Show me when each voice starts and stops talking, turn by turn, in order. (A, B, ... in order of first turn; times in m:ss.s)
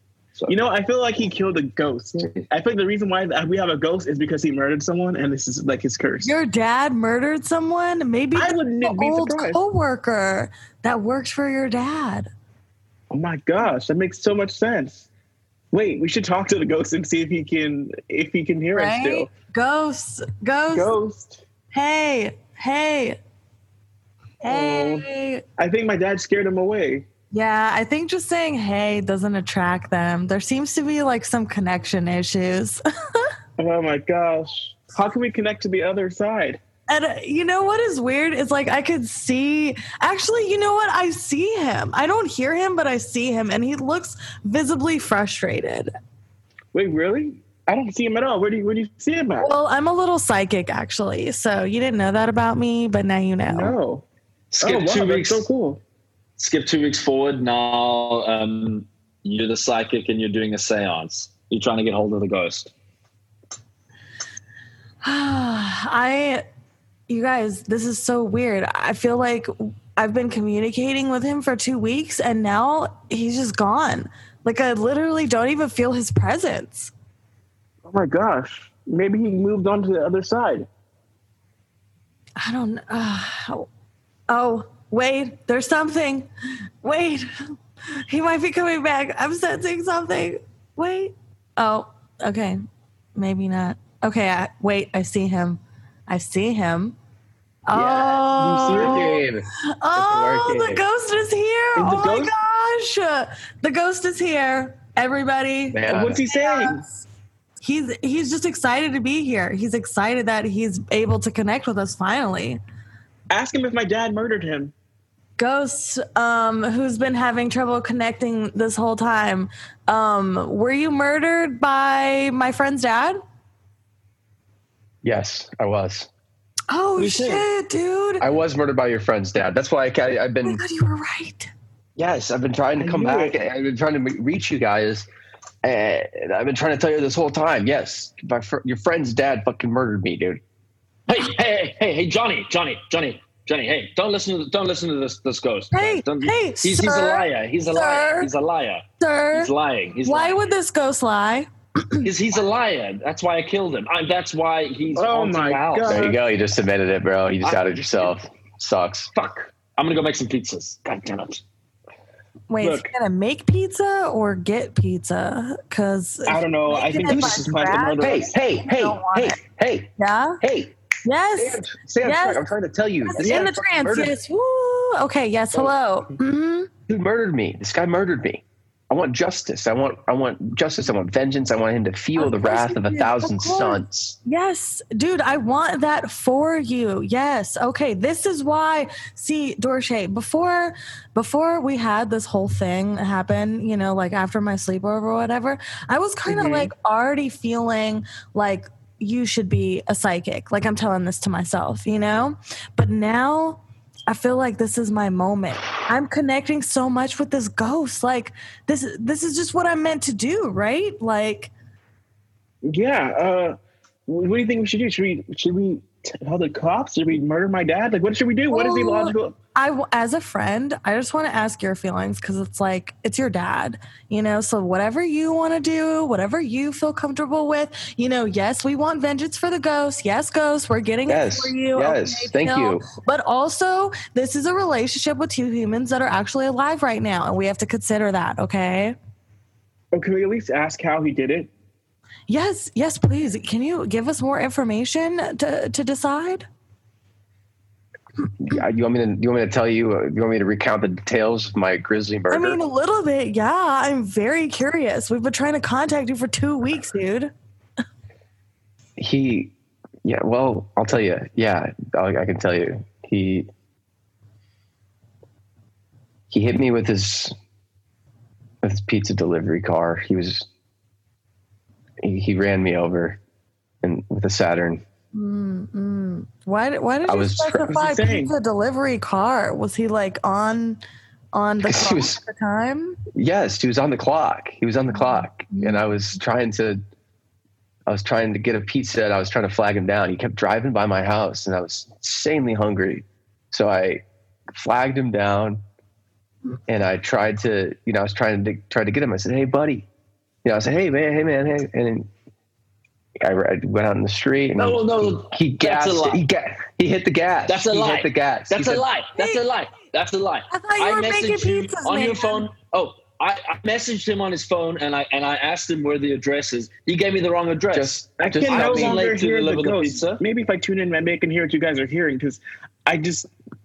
0:00.5-0:06.3 A
0:02.2-0:02.4 B
0:06.2-0:12.3 C
0:08.3-0:09.6 A
0:13.1-0:15.1 A
0:15.7-0:19.3 A
0:18.7-0:20.9 C
0:20.7-0:21.4 A
0:21.7-0:23.2 C
0:24.4-0:25.4 C
0:24.5-0:27.1 A
0:27.3-0:33.3 C
0:33.6-0:36.6 A
0:36.9-0:45.9 C
0:46.7-0:49.5 A
0:49.4-0:53.8 C
0:53.5-0:54.0 A
0:54.5-0:55.5 B
0:54.6-0:55.8 A
0:56.4-1:02.7 B
1:05.0-1:06.4 C
1:07.1-1:16.9 C
1:17.9-1:20.7 A
1:22.4-1:23.7 C
1:24.3-1:26.3 C
1:26.8-1:27.5 C
1:28.1-1:32.6 C
1:33.2-1:37.0 C
1:37.7-1:39.3 C
1:37.7-1:40.8 D
1:38.4-1:39.2 A
1:39.8-1:47.0 C
1:41.8-1:42.3 A
1:45.7-1:46.2 D
1:45.9-1:46.8 A
1:47.6-1:52.6 C
1:53.3-1:54.7 A
1:55.4-2:03.2 C
2:05.0-2:06.1 D
2:06.7-2:08.3 C
2:08.2-2:10.6 D
2:10.4-2:11.5 C
2:12.0-2:15.1 D
2:12.8-2:13.4 A
2:15.6-2:20.4 D
2:21.1-2:30.4 B
2:25.7-2:28.3 C
2:29.0-2:29.5 C
2:30.0-2:32.0 C
2:32.0-2:36.1 B
2:35.0-2:36.2 A
2:35.9-2:39.1 D
2:37.4-2:37.7 B
2:39.2-2:41.4 B
2:42.5-2:49.4 C
2:42.6-2:42.9 A
2:46.3-2:48.4 A
2:47.2-2:47.4 D
2:48.0-2:50.8 D
2:50.0-2:50.4 C
2:51.0-2:52.5 C
2:51.4-2:54.1 D
2:53.0-2:56.7 C
2:53.2-2:53.5 A
2:56.9-3:04.2 D
3:02.2-3:31.5 C
3:16.3-3:16.6 A
3:32.7-3:33.6 A
3:34.1-3:39.4 A
3:38.5-3:59.0 C
3:51.1-3:52.8 D
3:59.9-4:01.5 A
4:02.3-4:06.4 C
4:08.4-4:12.6 D
4:12.3-4:17.3 C
4:19.0-4:19.5 D
4:20.0-4:23.5 D
4:26.3-4:27.3 D
4:28.6-4:30.5 D
4:32.0-4:33.2 D
4:33.8-4:34.8 D
4:35.1-4:40.8 C
4:37.1-4:37.7 D
4:37.6-4:38.3 A
4:41.3-4:43.0 C
4:41.6-4:42.2 D
4:43.2-4:46.8 D
4:45.0-4:45.8 C
4:47.9-4:55.6 D
4:56.7-4:59.9 D
5:00.4-5:02.1 D
5:03.2-5:08.8 D
5:04.6-5:06.2 B
5:07.5-5:20.2 B
5:10.5-5:12.5 C
5:17.7-5:19.0 D
5:18.2-5:23.3 A